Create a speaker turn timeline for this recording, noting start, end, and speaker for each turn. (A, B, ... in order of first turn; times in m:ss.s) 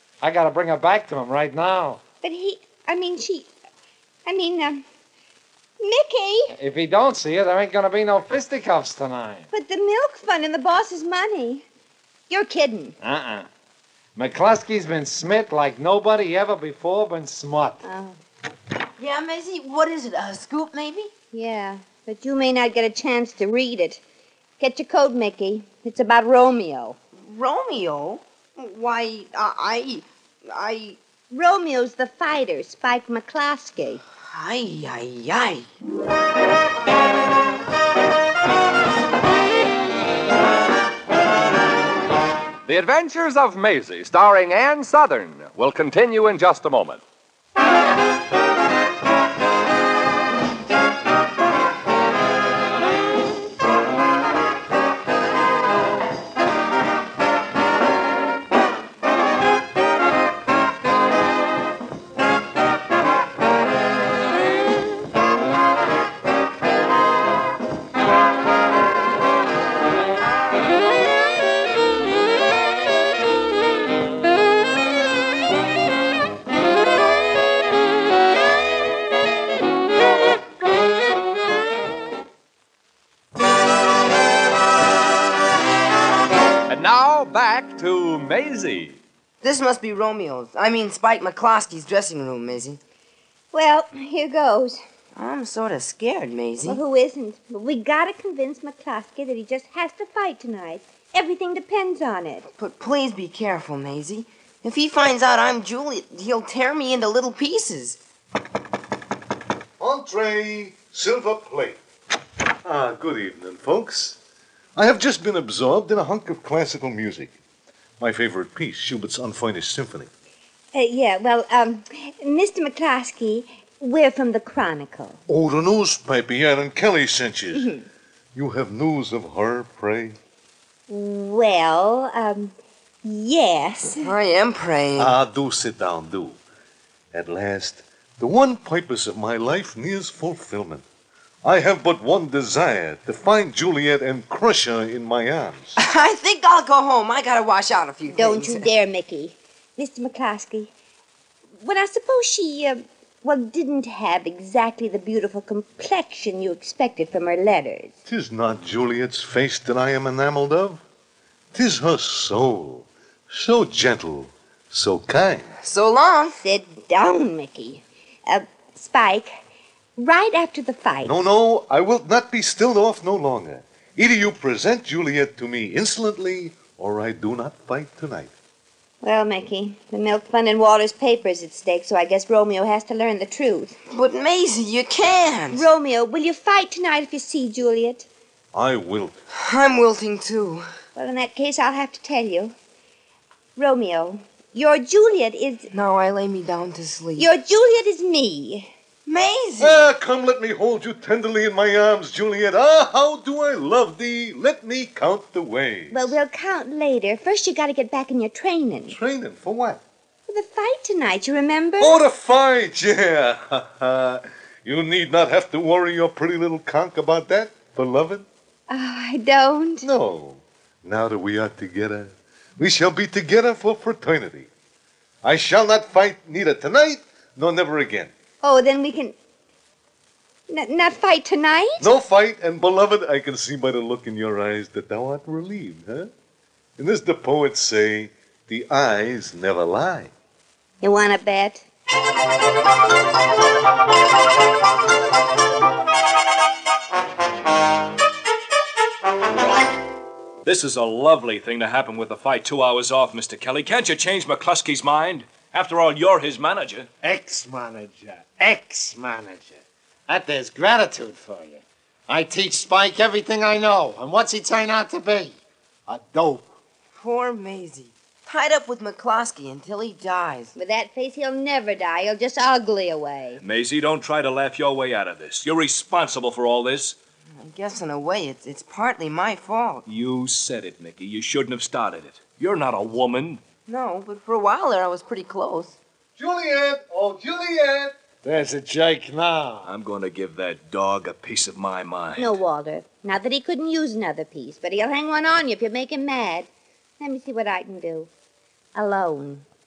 0:00.2-0:02.0 A
0:02.2-0:03.5 B
0:04.3-0:04.8 B
0:05.8-0:06.5 B
0:06.5-0:09.5 A
0:09.5-0:11.6 B
0:12.3-0:13.0 B
0:13.0-0:13.5 A
0:14.2-0:17.8 A
0:17.8-0:18.2 B
0:19.0-0:21.1 C
0:21.3-0:24.0 B
0:24.6-0:27.0 B
0:27.2-0:31.0 C
0:31.3-0:34.0 B
0:34.3-0:35.7 C
0:42.7-0:47.0 D
1:26.7-1:29.0 D
1:29.4-1:32.8 C
1:33.5-1:34.8 B
1:35.2-1:36.8 C
1:36.6-1:42.5 B
1:42.6-1:48.0 C
1:49.8-1:51.8 E
1:52.6-1:54.2 E
1:54.8-1:57.4 E
1:58.0-2:00.1 E
2:00.7-2:05.2 B
2:05.3-2:07.7 E
2:07.6-2:07.8 B
2:08.4-2:10.2 E
2:10.9-2:14.1 B
2:14.0-2:15.1 C
2:15.0-2:16.4 E
2:17.1-2:20.8 E
2:21.4-2:25.8 E
2:25.8-2:28.7 C
2:28.1-2:30.7 B
2:31.6-2:38.0 B
2:38.1-2:40.8 E
2:41.5-2:45.5 E
2:45.6-2:46.4 C
2:46.4-2:49.4 B
2:50.0-2:51.2 B
2:51.0-2:58.3 E
2:59.0-3:03.8 B
3:03.9-3:05.7 C
3:05.5-3:08.1 B
3:08.5-3:09.2 E
3:09.3-3:10.7 C
3:11.0-3:12.6 B
3:13.6-3:15.7 B
3:15.7-3:17.3 C
3:17.2-3:18.7 B
3:19.1-3:19.9 C
3:19.6-3:26.2 E
3:25.9-3:29.0 B
3:28.9-3:29.8 E
3:30.3-3:32.0 B
3:31.8-3:38.3 E
3:38.7-3:39.9 B
3:39.8-3:44.5 E
3:45.2-3:48.1 E
3:48.4-3:49.2 B
3:50.5-3:51.9 B
3:51.8-3:56.1 E
3:56.8-4:00.1 E
4:00.8-4:01.7 B
4:10.4-4:16.9 F
4:17.0-4:25.4 A
4:25.9-4:26.5 A
4:27.0-4:30.5 C
4:30.6-4:33.4 B
4:33.4-4:37.0 F
4:37.4-4:39.8 C
4:39.9-4:43.4 F
4:43.7-4:45.8 C
4:46.2-4:48.0 E
4:48.2-4:49.7 A
4:49.6-4:52.4 F
4:52.2-4:56.5 B
4:57.0-4:58.1 B
4:58.8-4:59.4 B